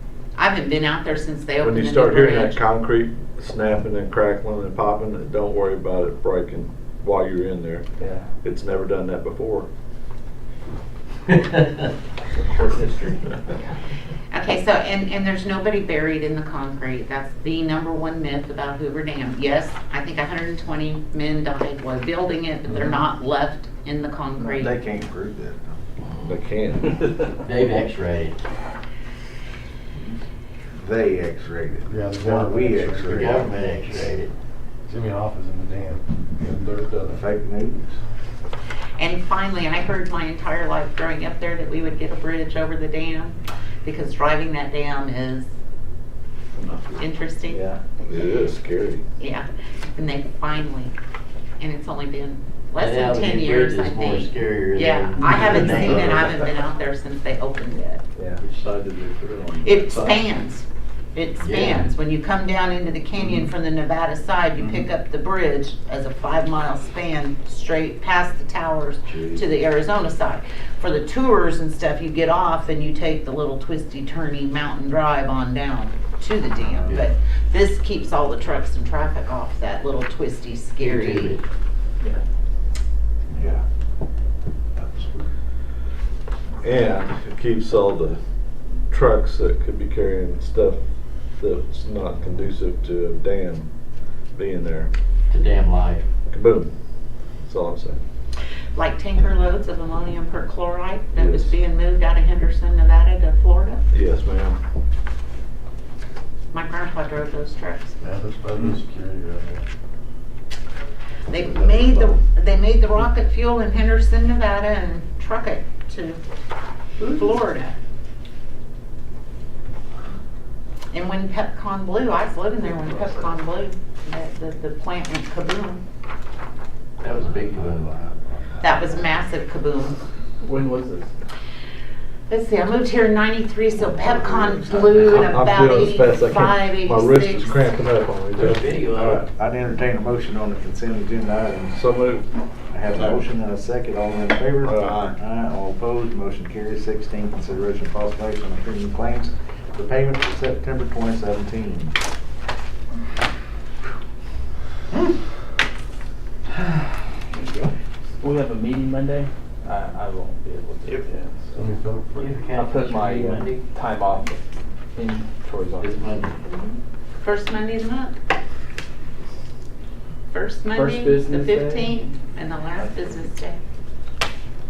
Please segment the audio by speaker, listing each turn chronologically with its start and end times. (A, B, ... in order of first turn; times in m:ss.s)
0:00.4-0:02.6 A
0:01.6-0:07.8 B
0:08.0-0:08.3 C
0:08.4-0:09.7 B
0:12.3-0:13.4 C
0:14.3-0:24.8 A
0:24.6-0:25.7 D
0:26.2-0:27.0 B
0:27.4-0:28.4 E
0:30.8-0:33.4 D
0:31.8-0:33.5 F
0:33.1-0:34.3 E
0:34.9-0:37.2 F
0:37.1-0:38.0 D
0:39.0-0:45.5 A
0:47.0-0:47.6 A
0:47.5-0:47.8 C
0:48.0-0:49.0 B
0:49.2-0:50.9 A
0:51.6-0:58.0 A
0:52.8-0:56.4 E
0:55.2-0:56.2 F
0:58.2-0:58.4 C
0:58.4-0:59.2 F
0:58.4-1:00.2 D
0:59.6-1:21.4 A
1:01.4-1:01.9 E
1:09.0-1:09.5 D
1:16.6-1:17.0 D
1:20.8-1:21.4 E
1:23.3-1:23.6 D
1:24.8-1:25.3 D
1:26.6-1:28.2 B
1:28.9-1:30.8 B
1:31.4-1:33.7 B
1:34.3-1:34.9 B
1:35.3-1:36.0 E
1:36.3-1:36.7 B
1:37.4-1:38.0 B
1:38.8-1:43.8 A
1:41.1-1:41.6 B
1:43.9-1:44.6 B
1:46.5-1:48.0 A
1:48.0-1:49.6 F
1:51.3-1:56.2 A
1:51.4-1:52.2 D
1:57.0-1:57.8 A
2:00.9-2:05.8 A
2:07.0-2:07.9 E
2:07.1-2:08.7 D
2:08.6-2:10.0 A
2:10.4-2:11.1 C
2:12.3-2:17.7 A
2:13.8-2:15.0 D
2:14.0-2:18.7 B
2:18.4-2:19.2 E
2:18.8-2:21.8 D
2:21.6-2:22.3 B
2:22.7-2:32.0 D
2:22.9-2:23.2 B
2:24.6-2:25.2 B
2:38.2-2:41.6 C
2:41.5-2:42.4 F
2:42.2-2:43.7 E
2:42.6-2:44.4 C
2:45.0-2:46.2 C
2:45.8-2:46.4 E
2:46.4-2:48.2 A
2:50.3-2:53.6 A
2:50.7-2:52.2 C
2:52.8-2:53.2 C